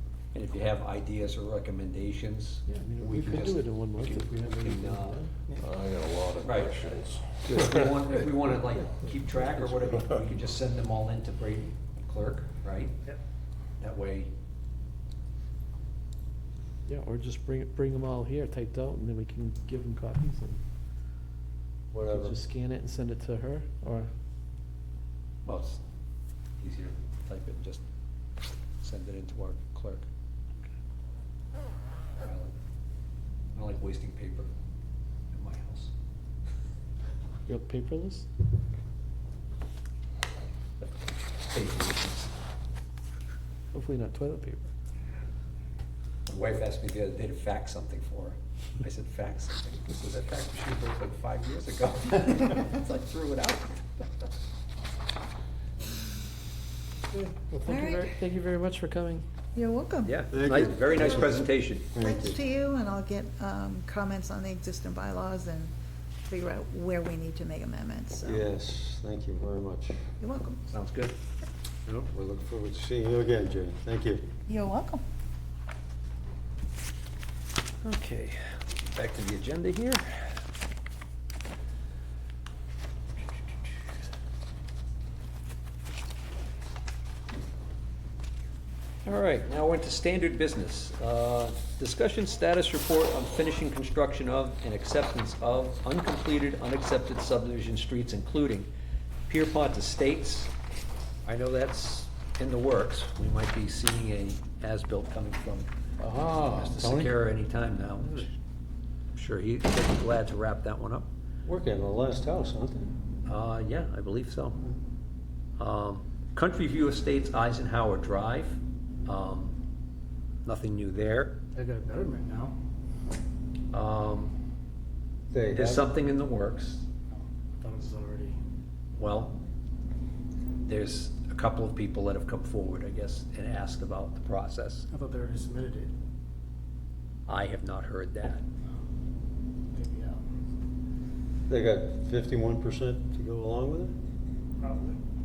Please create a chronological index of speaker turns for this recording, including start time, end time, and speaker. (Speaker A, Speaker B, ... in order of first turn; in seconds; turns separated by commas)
Speaker A: 0.3-5.2, Speaker B: 2.7-5.3, Speaker C: 5.6-7.8, Speaker A: 6.4-6.8, Speaker A: 7.4-12.9, Speaker A: 13.8-14.3, Speaker B: 16.9-20.6, Speaker D: 21.9-22.4, Speaker B: 22.1-24.1, Speaker A: 25.4-25.8, Speaker A: 26.6-27.8, Speaker A: 28.8-30.1, Speaker A: 32.2-32.5, Speaker A: 33.5-34.5, Speaker A: 35.3-35.9, Speaker B: 37.5-38.3, Speaker A: 40.8-42.3, Speaker B: 43.7-44.7, Speaker A: 46.3-54.0, Speaker B: 57.1-59.2, Speaker E: 57.6-58.1, Speaker E: 59.5-60.1, Speaker A: 60.0-61.9, Speaker D: 60.3-62.4, Speaker E: 60.9-61.4, Speaker E: 62.0-65.7, Speaker E: 66.3-68.5, Speaker D: 68.2-70.0, Speaker E: 70.2-70.6, Speaker A: 70.7-71.1, Speaker D: 71.8-74.2, Speaker E: 74.5-75.0, Speaker A: 77.8-80.2, Speaker A: 89.0-98.7, Speaker A: 99.3-100.5, Speaker A: 101.2-105.7, Speaker D: 106.0-107.2, Speaker A: 106.5-108.3, Speaker A: 109.1-111.1, Speaker D: 111.4-112.9, Speaker A: 113.2-114.6, Speaker A: 115.6-119.5, Speaker A: 120.4-121.4, Speaker F: 121.6-122.5, Speaker A: 123.7-124.3, Speaker D: 125.3-125.9, Speaker A: 125.5-126.8, Speaker F: 127.6-128.3, Speaker A: 129.0-129.4, Speaker A: 130.6-134.9, Speaker F: 135.0-135.9, Speaker A: 137.3-138.4, Speaker F: 139.8-140.2, Speaker D: 141.5-143.9